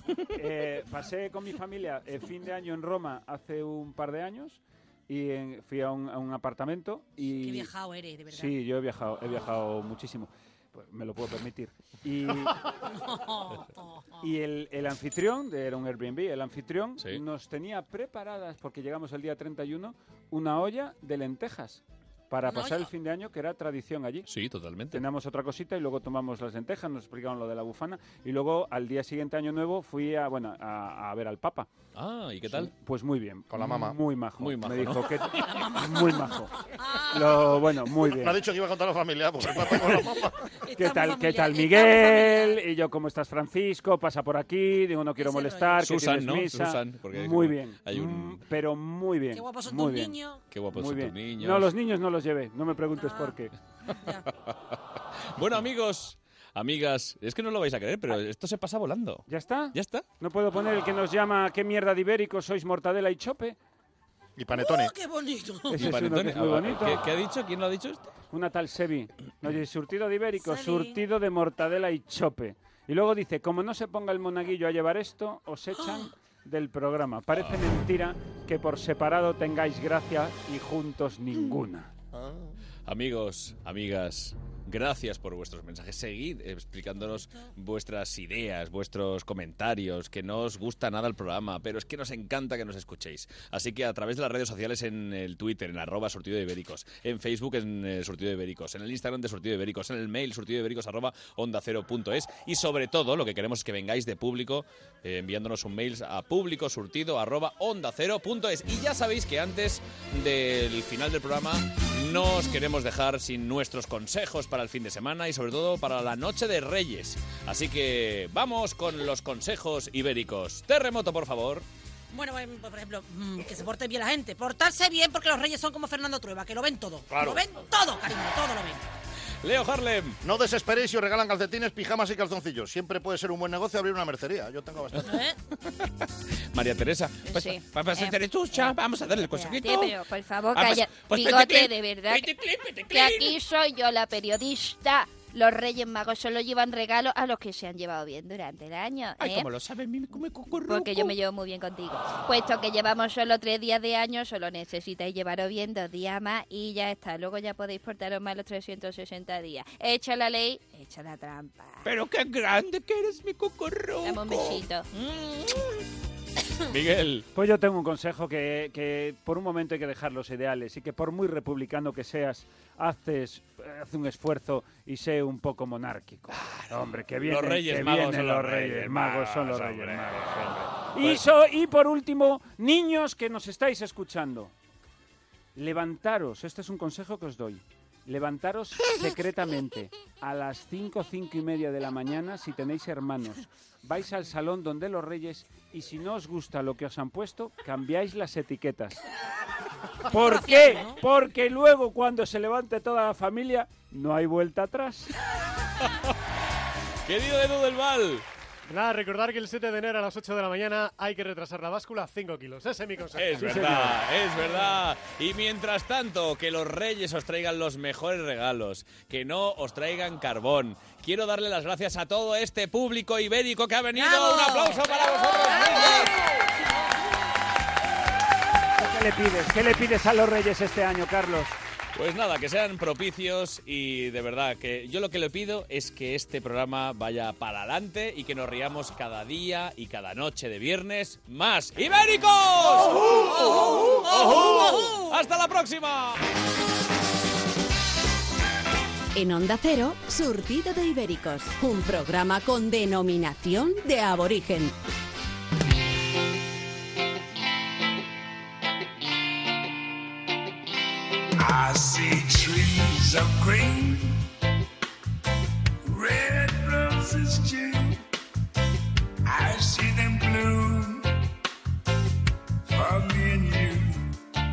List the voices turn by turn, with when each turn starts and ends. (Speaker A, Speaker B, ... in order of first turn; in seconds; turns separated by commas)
Speaker A: 0.3-7.7, Speaker B: 7.3-8.6, Speaker A: 8.3-12.6, Speaker B: 12.8-14.2, Speaker A: 14.2-24.3, Speaker B: 22.4-22.9, Speaker C: 24.2-25.0, Speaker A: 24.9-31.7, Speaker C: 31.9-32.7, Speaker A: 32.5-36.5, Speaker D: 33.5-34.0, Speaker C: 34.4-35.3, Speaker B: 35.4-37.7, Speaker A: 37.1-38.4, Speaker D: 38.2-40.5, Speaker B: 40.6-42.6, Speaker A: 40.7-50.2, Speaker B: 45.1-45.8, Speaker C: 45.8-48.4, Speaker B: 49.3-50.4, Speaker C: 50.5-51.7, Speaker A: 50.7-53.5, Speaker B: 52.9-53.4, Speaker B: 53.9-54.3, Speaker C: 54.5-54.7, Speaker C: 55.4-60.0, Speaker A: 59.3-63.6, Speaker D: 64.4-64.9, Speaker B: 64.5-65.9, Speaker A: 65.7-67.0, Speaker C: 65.8-68.2, Speaker A: 68.3-81.9, Speaker B: 70.4-71.0, Speaker B: 75.8-76.1, Speaker C: 82.9-121.6, Speaker B: 87.0-87.5, Speaker B: 122.1-128.9, Speaker D: 127.1-127.4, Speaker C: 129.4-130.2, Speaker D: 130.2-135.2, Speaker B: 135.0-135.4, Speaker C: 135.7-139.9, Speaker E: 137.2-142.3, Speaker C: 140.5-143.3, Speaker E: 142.9-149.5, Speaker C: 149.2-151.1, Speaker E: 150.6-161.9, Speaker C: 161.8-165.5, Speaker E: 164.0-164.9, Speaker C: 166.7-167.3, Speaker A: 167.3-184.5, Speaker C: 176.3-181.2, Speaker A: 185.5-199.0, Speaker A: 200.1-205.1, Speaker B: 200.1-201.0, Speaker C: 207.1-208.2, Speaker F: 208.7-213.8, Speaker C: 213.2-226.1, Speaker A: 213.4-214.0, Speaker B: 223.9-226.2, Speaker A: 228.8-231.6, Speaker C: 231.9-243.6, Speaker B: 242.8-245.1, Speaker C: 244.1-246.2, Speaker G: 249.1-254.7, Speaker H: 261.4-264.2, Speaker H: 265.8-268.0, Speaker H: 269.2-271.1, Speaker H: 272.7-274.0